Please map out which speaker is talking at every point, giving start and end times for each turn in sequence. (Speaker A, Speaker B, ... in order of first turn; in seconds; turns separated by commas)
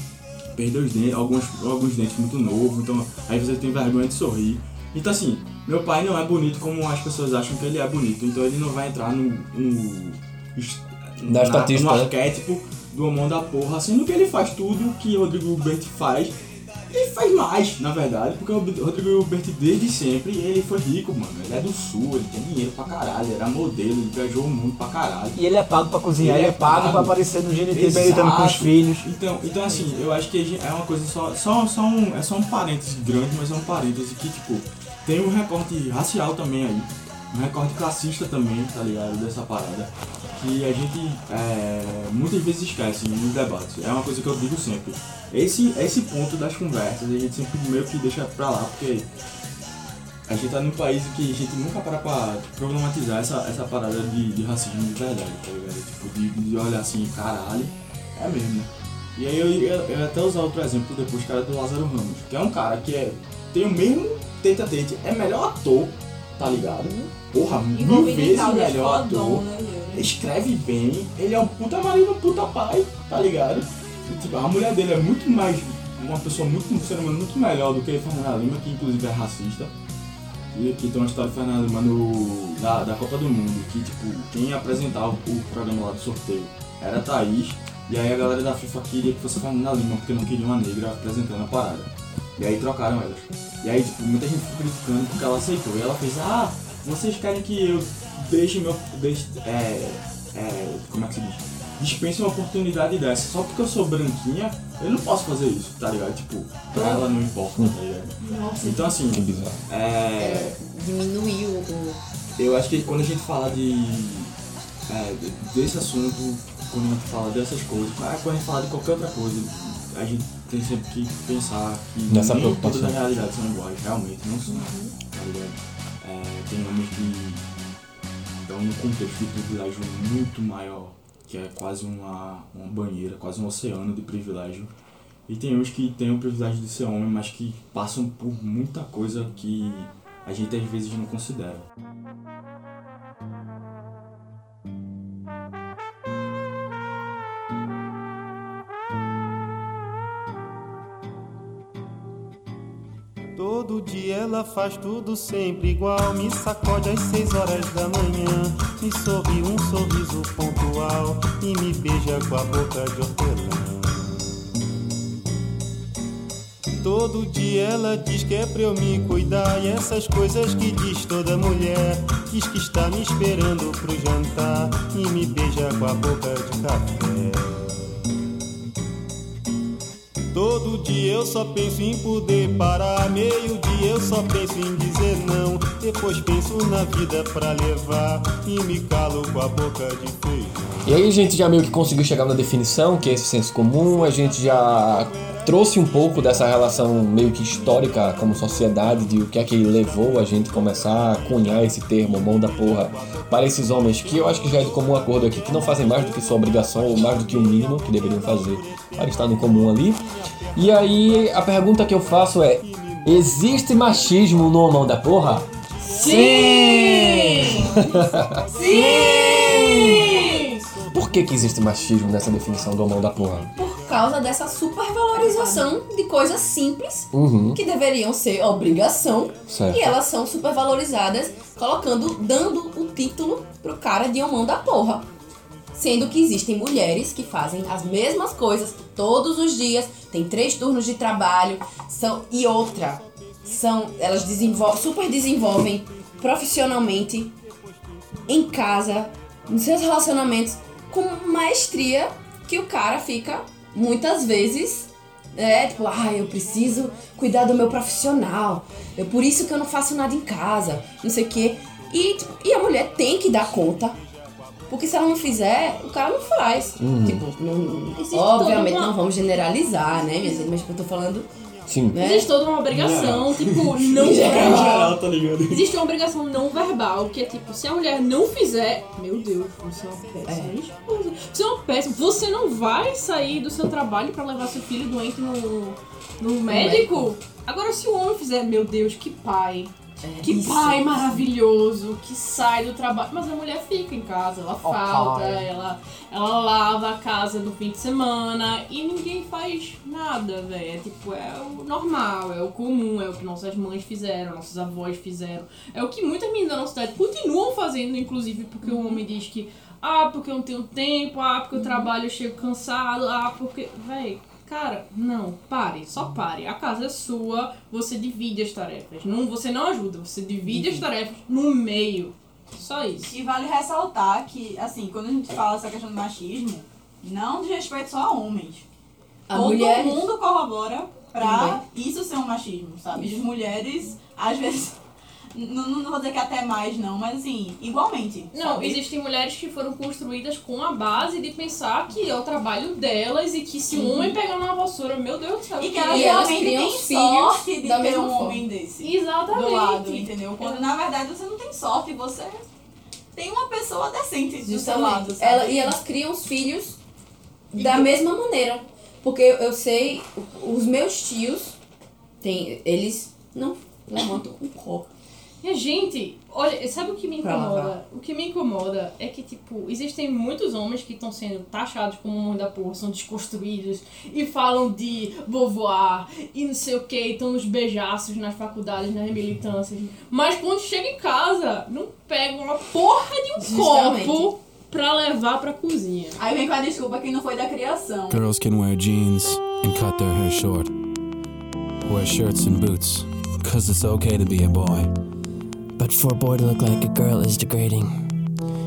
Speaker A: 0.6-16.3, Speaker B: 11.3-12.1, Speaker A: 16.9-25.4, Speaker C: 25.4-29.1, Speaker A: 26.2-27.2, Speaker A: 27.7-49.1, Speaker A: 50.3-79.7, Speaker D: 66.8-67.1, Speaker E: 67.7-70.1, Speaker A: 80.5-110.6, Speaker E: 108.2-109.0, Speaker B: 109.1-109.6, Speaker D: 110.2-112.0, Speaker A: 112.4-114.3, Speaker A: 114.9-127.4, Speaker B: 122.1-123.0, Speaker D: 124.5-124.9, Speaker A: 128.4-134.7, Speaker A: 135.3-141.6, Speaker F: 153.4-164.3, Speaker F: 166.8-177.7, Speaker F: 180.3-190.6, Speaker B: 190.8-210.0, Speaker F: 193.9-199.0, Speaker F: 199.6-214.5, Speaker B: 210.6-215.4, Speaker F: 215.0-215.4, Speaker G: 215.9-217.6, Speaker F: 216.0-216.3, Speaker B: 216.0-218.4, Speaker F: 217.4-222.6, Speaker D: 218.6-220.3, Speaker E: 218.6-220.3, Speaker G: 218.7-220.6, Speaker B: 220.9-223.5, Speaker D: 223.6-235.1, Speaker E: 225.2-225.6, Speaker B: 227.1-227.6, Speaker B: 229.5-229.9, Speaker D: 235.7-247.3, Speaker D: 248.3-264.0, Speaker D: 264.7-271.3, Speaker B: 266.8-267.2, Speaker G: 268.0-268.9, Speaker B: 271.7-272.0, Speaker D: 271.9-272.3, Speaker G: 271.9-323.1, Speaker A: 272.7-275.7, Speaker D: 274.0-274.8, Speaker D: 280.3-280.6, Speaker D: 286.5-287.1, Speaker D: 290.0-291.3, Speaker B: 294.7-295.4, Speaker D: 311.6-311.9, Speaker D: 320.5-320.9, Speaker E: 323.0-328.6, Speaker D: 329.3-330.1, Speaker E: 329.3-334.8, Speaker D: 331.2-331.6, Speaker E: 335.3-338.8, Speaker G: 338.3-346.3, Speaker D: 343.7-344.1, Speaker E: 345.6-352.5, Speaker D: 345.9-348.4, Speaker G: 348.8-350.6, Speaker E: 353.1-355.8, Speaker D: 354.4-356.8, Speaker E: 357.5-357.9, Speaker D: 357.5-361.6, Speaker D: 362.2-364.9, Speaker G: 365.4-386.2, Speaker D: 367.2-367.7, Speaker D: 383.4-384.3, Speaker E: 386.2-388.2, Speaker H: 388.1-390.7, Speaker H: 391.8-394.9, Speaker I: 395.8-398.1